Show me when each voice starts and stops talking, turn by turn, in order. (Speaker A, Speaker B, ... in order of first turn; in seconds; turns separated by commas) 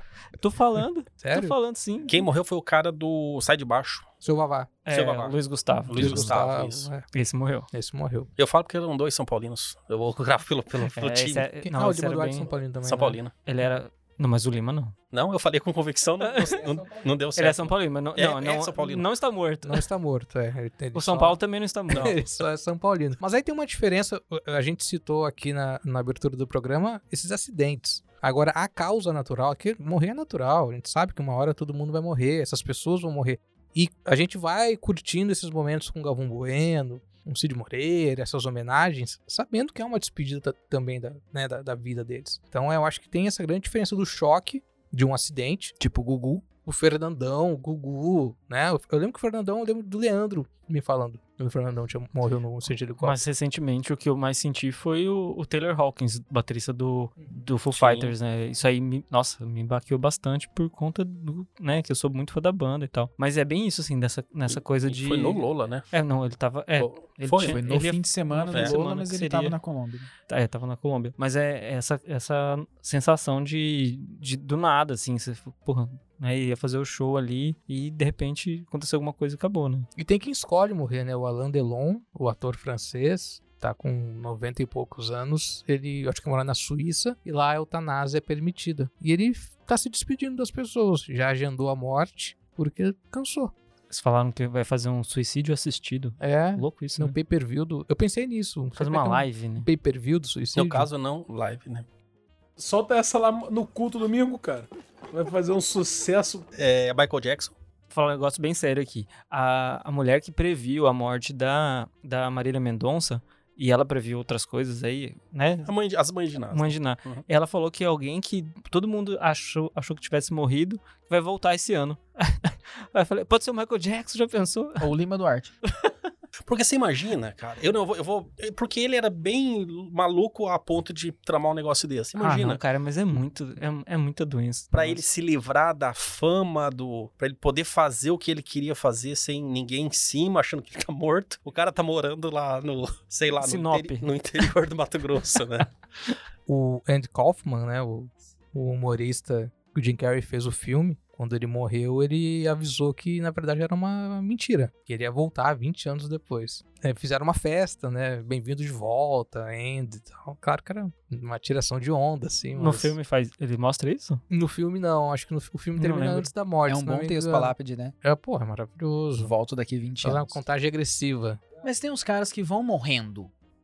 Speaker A: 0.4-2.2, Speaker B: 1.2-1.5, Speaker C: 2.1-4.1, Speaker B: 4.2-4.7, Speaker A: 4.8-6.4, Speaker C: 4.9-6.9, Speaker B: 5.9-7.0, Speaker A: 7.1-7.7, Speaker B: 7.7-8.3, Speaker C: 8.4-11.4, Speaker A: 10.9-12.5, Speaker B: 11.6-13.2, Speaker C: 12.8-13.3, Speaker A: 13.4-14.9, Speaker C: 15.1-19.0, Speaker A: 16.2-16.6, Speaker A: 17.4-19.9, Speaker B: 19.6-21.4, Speaker A: 20.9-22.2, Speaker B: 21.9-45.7, Speaker D: 45.8-46.4, Speaker B: 46.6-53.2, Speaker A: 53.0-69.5, Speaker C: 57.7-58.1, Speaker C: 64.5-65.9, Speaker C: 66.8-67.6, Speaker D: 67.4-70.1, Speaker A: 70.3-79.9, Speaker B: 80.0-93.5, Speaker A: 93.9-97.1, Speaker B: 96.2-100.9, Speaker A: 98.8-99.7, Speaker C: 100.5-101.8, Speaker E: 102.6-106.5, Speaker C: 106.5-107.5, Speaker A: 107.9-115.7, Speaker C: 115.6-117.2, Speaker A: 116.5-124.9, Speaker D: 124.8-125.5, Speaker C: 126.5-132.6, Speaker A: 132.2-135.0, Speaker C: 134.7-145.7, Speaker A: 143.4-144.1, Speaker B: 146.5-162.9, Speaker A: 162.6-164.2, Speaker B: 164.3-169.3, Speaker A: 165.8-166.3, Speaker D: 166.7-167.9, Speaker D: 169.2-170.4, Speaker B: 170.0-171.4, Speaker D: 171.6-173.3